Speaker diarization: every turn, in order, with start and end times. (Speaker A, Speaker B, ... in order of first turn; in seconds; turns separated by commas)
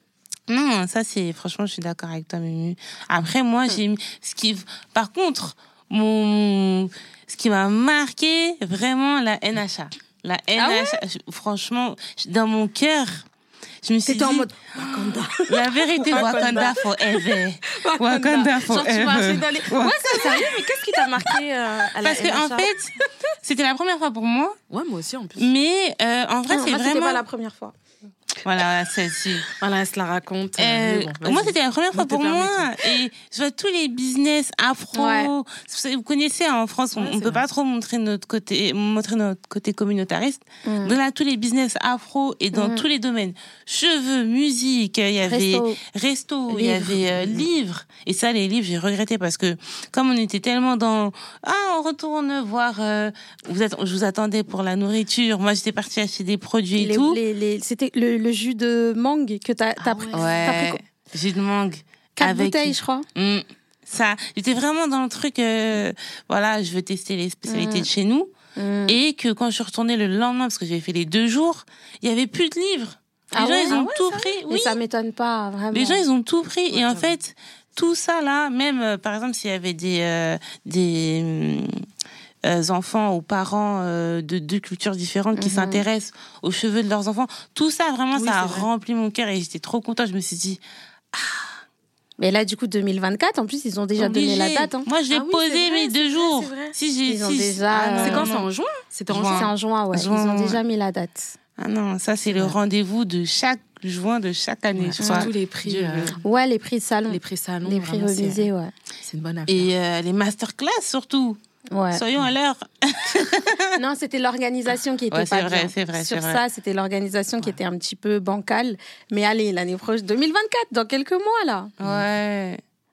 Speaker A: 0.5-13.2, Speaker B: 10.6-11.0, Speaker A: 13.8-14.5, Speaker B: 14.1-18.6, Speaker A: 15.5-20.5, Speaker C: 18.5-22.7, Speaker B: 19.7-21.3, Speaker A: 22.0-24.6, Speaker C: 24.7-25.5, Speaker A: 25.4-27.2, Speaker B: 26.5-27.8, Speaker A: 28.4-29.5, Speaker C: 29.6-32.7, Speaker A: 30.6-57.2, Speaker B: 35.0-35.3, Speaker C: 37.0-37.4, Speaker B: 40.6-41.0, Speaker B: 42.5-42.9, Speaker B: 45.2-45.8, Speaker B: 46.5-47.1, Speaker B: 56.8-60.8, Speaker C: 59.8-60.5, Speaker A: 60.1-68.3, Speaker B: 62.2-63.1, Speaker B: 67.5-67.9, Speaker B: 68.5-69.0, Speaker A: 68.9-74.8, Speaker B: 73.3-73.8, Speaker C: 73.7-74.4, Speaker B: 74.5-76.0, Speaker A: 75.7-81.8, Speaker C: 76.7-77.1, Speaker A: 82.5-90.6, Speaker B: 85.4-85.8, Speaker C: 88.1-88.7, Speaker A: 91.1-91.5, Speaker B: 92.2-94.9, Speaker A: 94.0-98.5, Speaker C: 95.1-96.8, Speaker B: 97.1-98.3, Speaker C: 98.0-99.5, Speaker A: 99.1-100.6, Speaker B: 99.3-101.3, Speaker A: 101.6-106.2, Speaker C: 102.2-102.6, Speaker C: 104.8-106.2, Speaker B: 105.0-105.3, Speaker B: 106.2-108.7, Speaker C: 107.1-108.5, Speaker C: 109.0-109.7, Speaker A: 109.5-111.4, Speaker B: 111.7-112.0, Speaker A: 111.9-113.8, Speaker B: 113.8-121.7, Speaker A: 115.1-116.4, Speaker A: 121.8-122.6